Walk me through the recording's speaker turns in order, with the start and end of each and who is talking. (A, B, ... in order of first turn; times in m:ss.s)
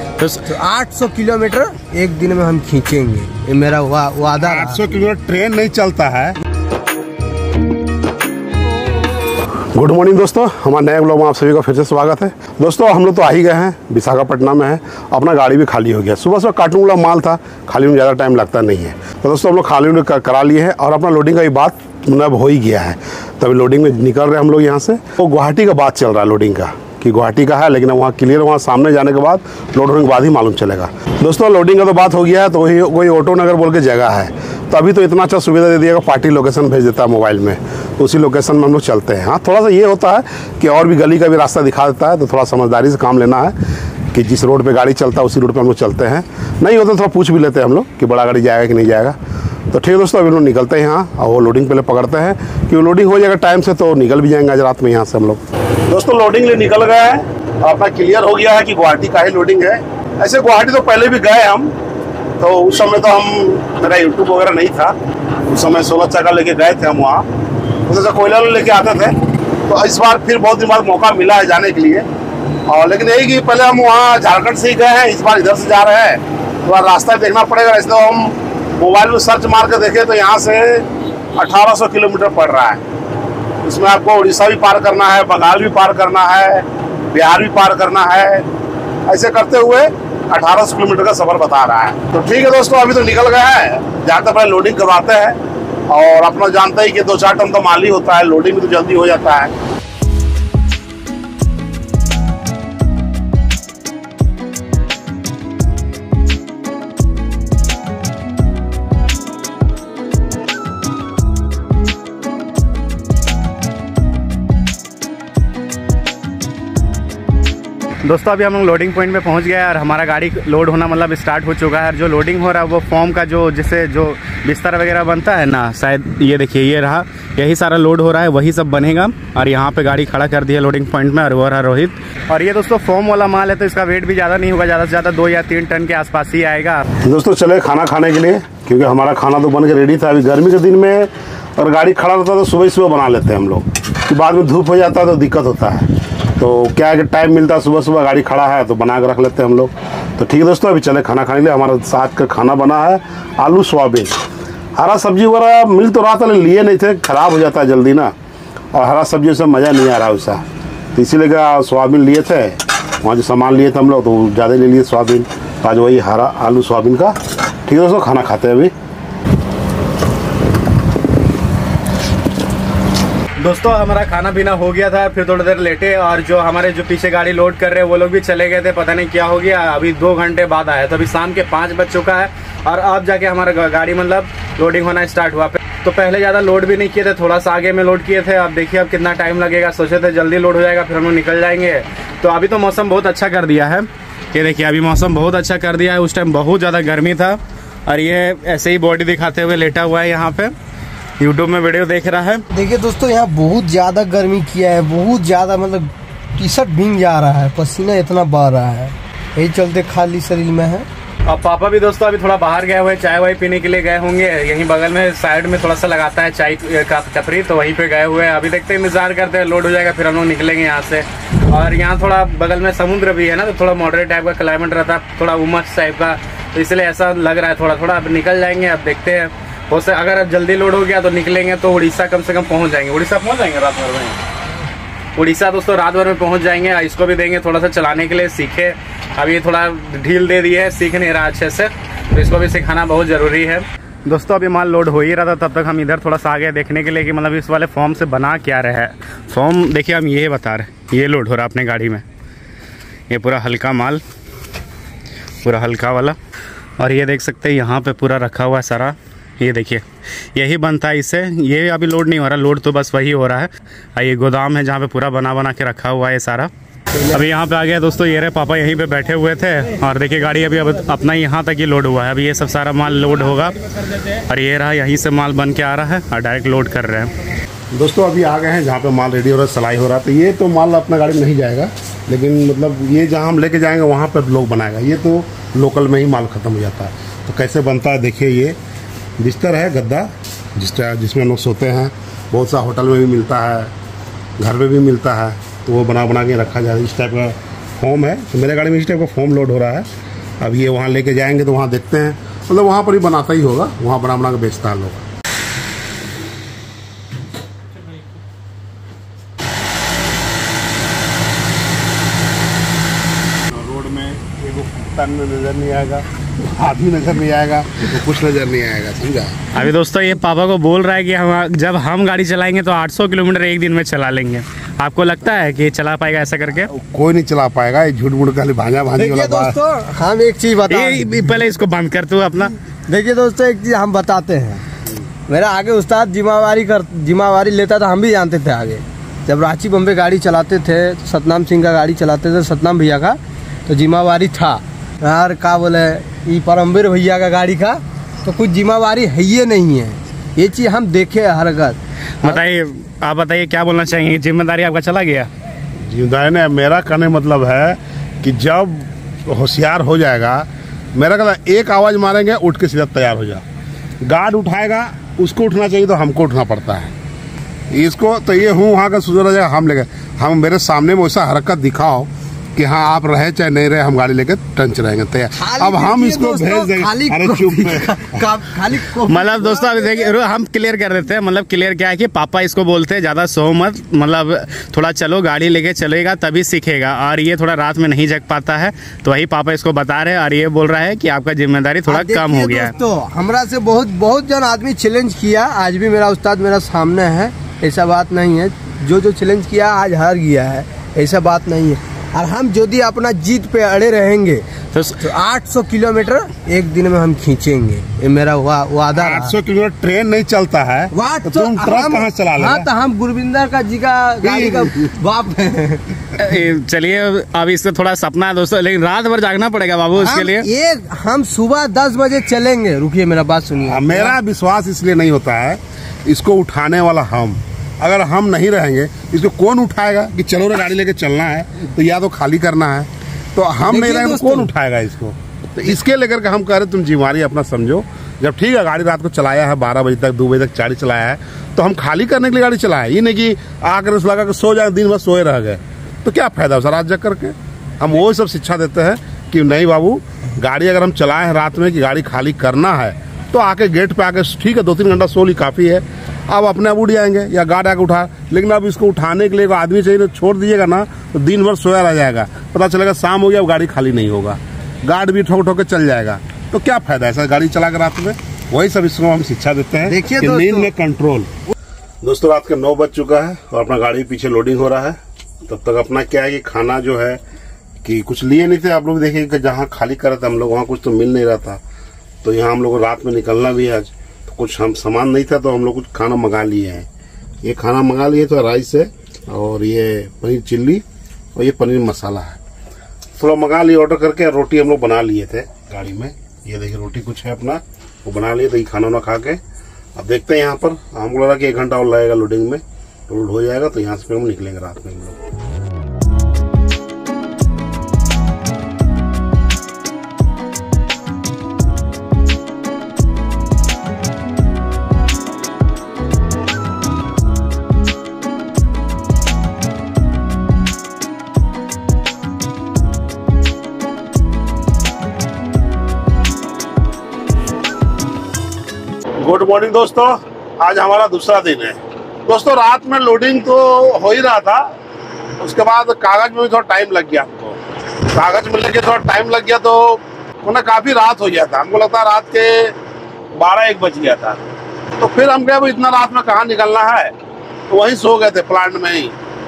0:00.2-0:00.4 A
0:00.4-0:04.8 B
0:04.4-0:06.4 C
0:09.7-0:43.6 C
0:44.1-0:49.2 C
0:49.7-1:01.7 C
1:02.4-1:07.3 C
1:07.8-1:12.1 C
1:12.7-1:22.8 C
1:23.6-1:28.5 C
1:29.1-1:39.5 C
1:58.0-2:16.8 A
2:17.0-2:34.1 C
2:34.8-2:38.1 C
2:38.7-2:40.4 C
2:40.9-2:48.7 C
2:53.4-3:20.5 A
3:21.2-3:22.4 A
3:22.5-3:30.8 B
3:31.3-3:54.2 A
3:55.1-4:12.0 A
4:13.1-4:14.0 A
4:15.4-4:16.2 A
4:16.8-4:19.8 A
4:20.3-4:26.5 A
4:27.0-4:37.1 A
4:37.7-4:48.6 C
4:49.2-4:53.7 C
4:54.4-4:59.9 C
5:00.4-5:05.0 C
5:13.5-5:19.4 C
5:19.5-5:26.7 A
5:26.6-5:29.6 C
5:29.0-5:31.3 B
5:30.7-5:32.5 A
5:32.9-5:34.6 B
5:35.3-5:52.4 B
5:52.2-5:55.3 A
5:55.8-6:03.4 C
6:04.0-6:06.9 C
6:07.7-6:18.3 C
6:15.4-6:20.1 B
6:19.0-6:32.7 A
6:31.9-6:44.4 B
6:44.7-6:45.0 A
6:45.0-6:49.4 B
6:49.0-6:52.7 C
6:50.9-6:56.1 B
6:54.2-6:54.9 C
6:56.1-7:00.5 A
7:00.0-7:04.2 B
7:03.7-7:51.3 C
7:13.6-7:14.5 B
7:49.8-7:50.7 B
7:52.0-7:57.2 C
7:57.8-8:01.6 C
8:02.2-8:06.9 C
8:07.4-8:10.8 C
8:11.3-8:12.4 C
8:13.2-8:19.4 C
8:20.0-8:25.2 C
8:49.2-8:54.7 C
8:55.4-9:02.7 C
9:03.3-9:04.4 C
9:05.0-9:07.1 C
9:07.7-9:09.2 C